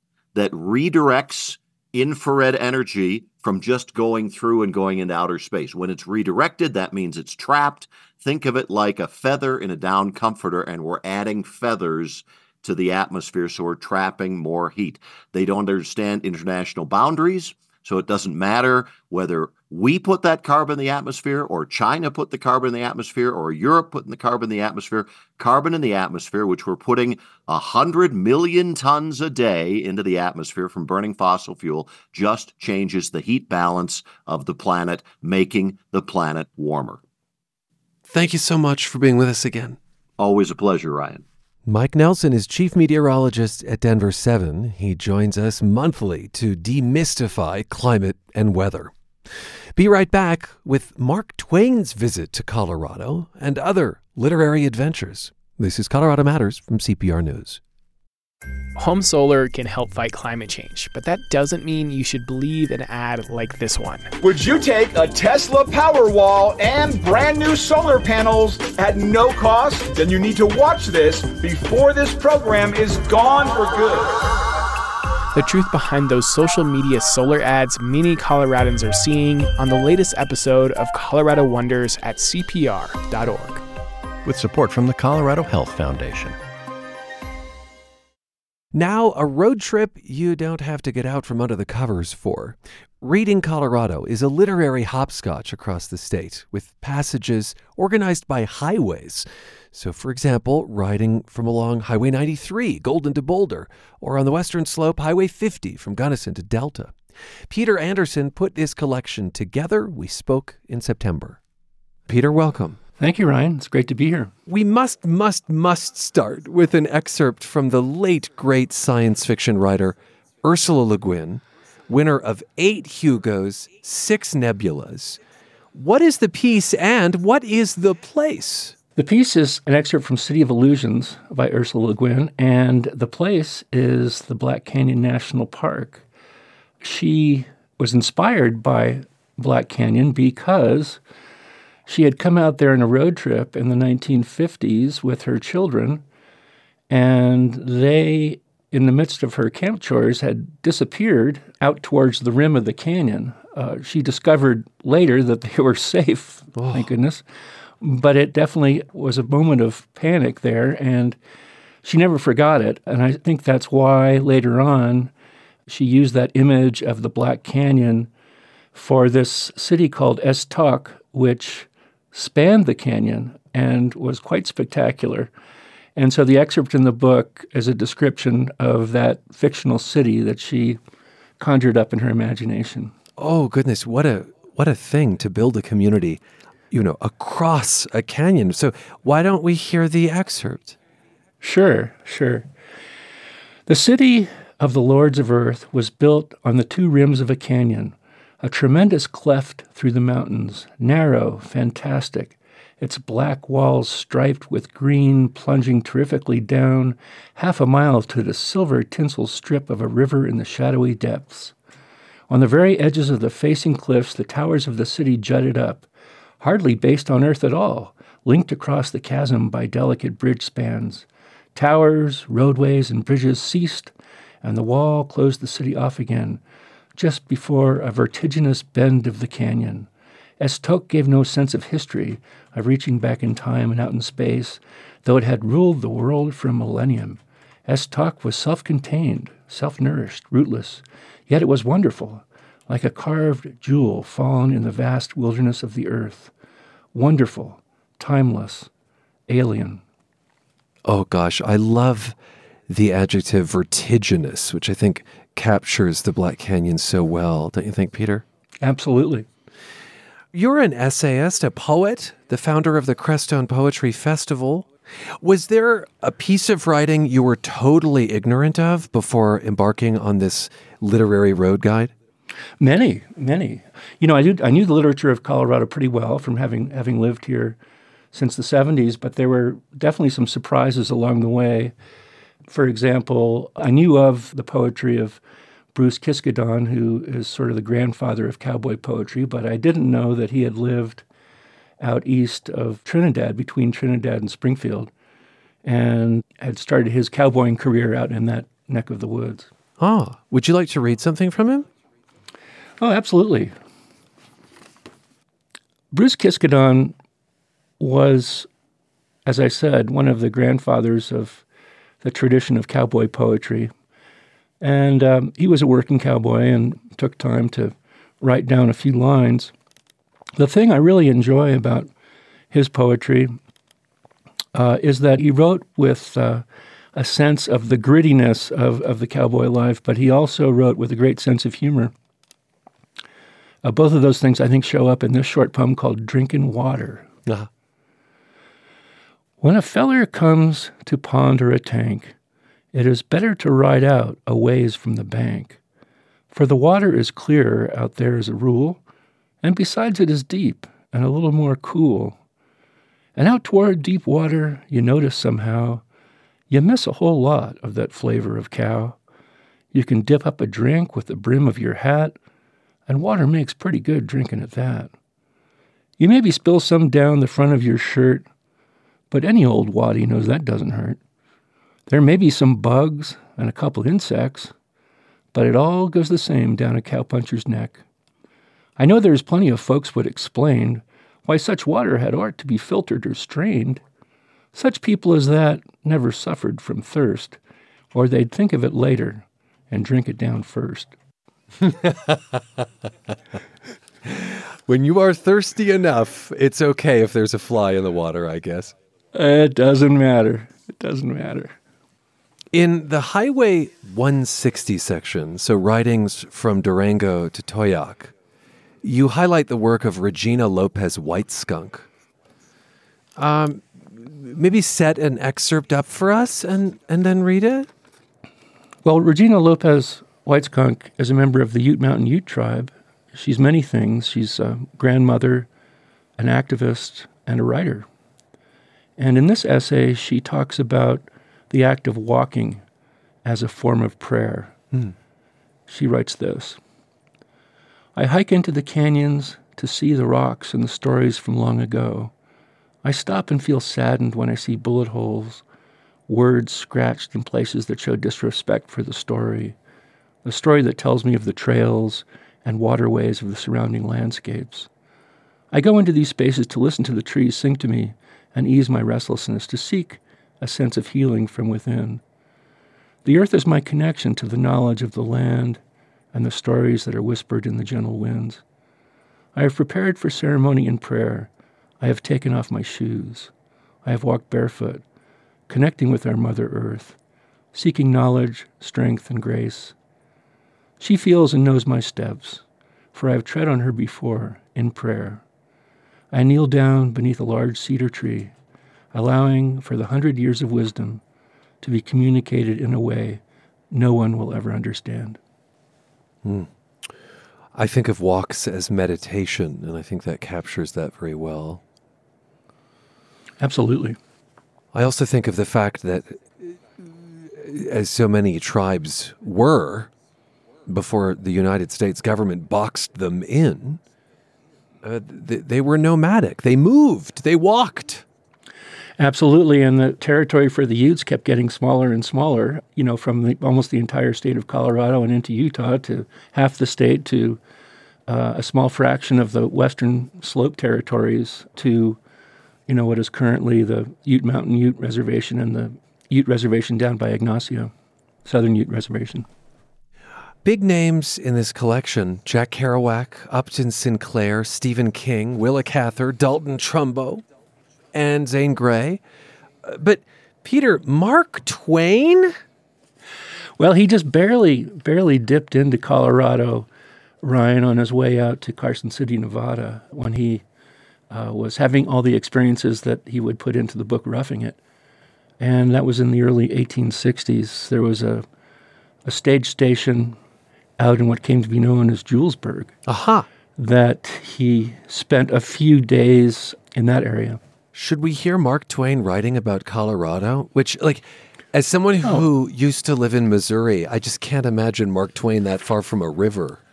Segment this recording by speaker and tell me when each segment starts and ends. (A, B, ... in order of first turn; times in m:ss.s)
0:00.3-0:37.0 A
0:38.1-0:39.8 B
0:40.2-0:41.2 A
0:41.6-0:48.9 B
0:49.8-0:57.6 B
0:58.8-1:04.1 C
1:04.2-1:14.3 D
1:15.3-1:23.6 C
1:24.2-1:26.4 E
1:28.7-1:47.0 B
1:47.5-1:51.4 B
1:52.1-1:52.8 B
1:53.0-1:54.3 F
1:54.5-2:05.2 B
2:05.7-2:08.7 B
2:09.0-2:16.0 F
2:16.8-2:21.0 F
2:21.9-2:26.0 F
2:26.9-2:37.2 F
2:36.5-2:36.9 B
2:37.8-2:41.2 F
2:41.8-2:45.1 F
2:45.7-2:48.1 F
2:48.7-2:55.3 F
2:56.0-3:00.8 F
3:01.4-3:02.9 F
3:03.2-3:10.8 B
3:11.4-3:12.5 F
3:13.7-3:31.5 F
3:32.3-3:35.9 F
3:36.4-3:43.9 F
3:44.4-3:46.4 F
3:47.0-3:49.9 F
3:50.4-4:06.3 F
4:06.9-4:08.7 F
4:09.3-4:09.8 F
4:10.8-4:12.2 B
4:12.7-4:18.2 B
4:18.6-4:19.2 F
4:20.3-4:24.7 B
4:25.2-4:31.9 B
4:32.6-4:37.6 F
4:38.1-4:41.7 F
4:42.5-4:45.2 F
4:45.7-4:51.0 F
4:51.8-4:54.9 F
4:55.6-4:59.5 F
4:59.8-5:01.7 B
5:02.8-5:03.5 F
5:05.9-5:07.0 F
5:07.8-5:08.5 F
5:09.2-5:11.4 F
5:12.0-5:13.7 F
5:14.6-5:19.5 F
5:20.4-5:21.9 F
5:22.5-5:23.3 F
5:24.5-5:26.4 F
5:26.9-5:31.9 F
5:33.6-5:37.1 F
5:39.4-5:42.1 F
5:42.7-5:45.6 F
5:46.3-5:48.8 F
5:49.4-5:52.2 F
5:53.2-5:55.8 F
5:56.5-5:59.0 F
5:59.7-6:02.2 F
6:02.9-6:04.9 F
6:06.0-6:08.3 F
6:09.1-6:11.0 F
6:11.9-6:14.5 F
6:15.3-6:17.8 F
6:18.8-6:23.8 F
6:24.5-6:27.4 F
6:27.9-6:30.9 F
6:31.6-6:32.2 B
6:34.0-6:38.7 B
6:39.1-6:41.6 F
6:42.5-6:48.1 B
6:48.8-6:51.9 B
6:53.2-6:57.7 B
6:58.8-7:05.5 F
7:06.2-7:07.8 F
7:09.0-7:12.6 F
7:13.2-7:14.6 F
7:15.7-7:16.6 F
7:18.0-7:22.1 F
7:22.8-7:25.4 F
7:26.1-7:29.6 F
7:30.2-7:34.7 F
7:35.5-7:42.0 F
7:43.0-7:45.6 F
7:46.1-7:48.4 F
7:49.3-7:53.3 F
7:53.8-7:54.8 F
7:55.5-7:57.0 F
7:57.5-7:59.7 F
8:00.8-8:02.4 F
8:02.9-8:05.2 F
8:06.1-8:08.3 F
8:08.9-8:11.0 F
8:11.6-8:15.2 F
8:17.5-8:21.6 B
8:23.4-8:24.0 F
8:24.7-8:29.9 B
8:30.7-8:33.8 B
8:34.8-8:38.0 B
8:39.0-8:47.4 F
8:48.1-8:52.0 F
8:52.7-8:57.7 F
8:58.2-8:59.2 F
9:00.4-9:07.2 B
9:07.9-9:09.0 B
9:09.6-9:12.3 B
9:13.6-9:16.7 F
9:17.2-9:20.4 F
9:21.1-9:24.6 F
9:25.4-9:28.2 F
9:29.0-9:30.2 F
9:30.8-9:32.7 F
9:32.9-9:33.3 B
9:33.6-9:37.4 F
9:37.7-9:46.6 B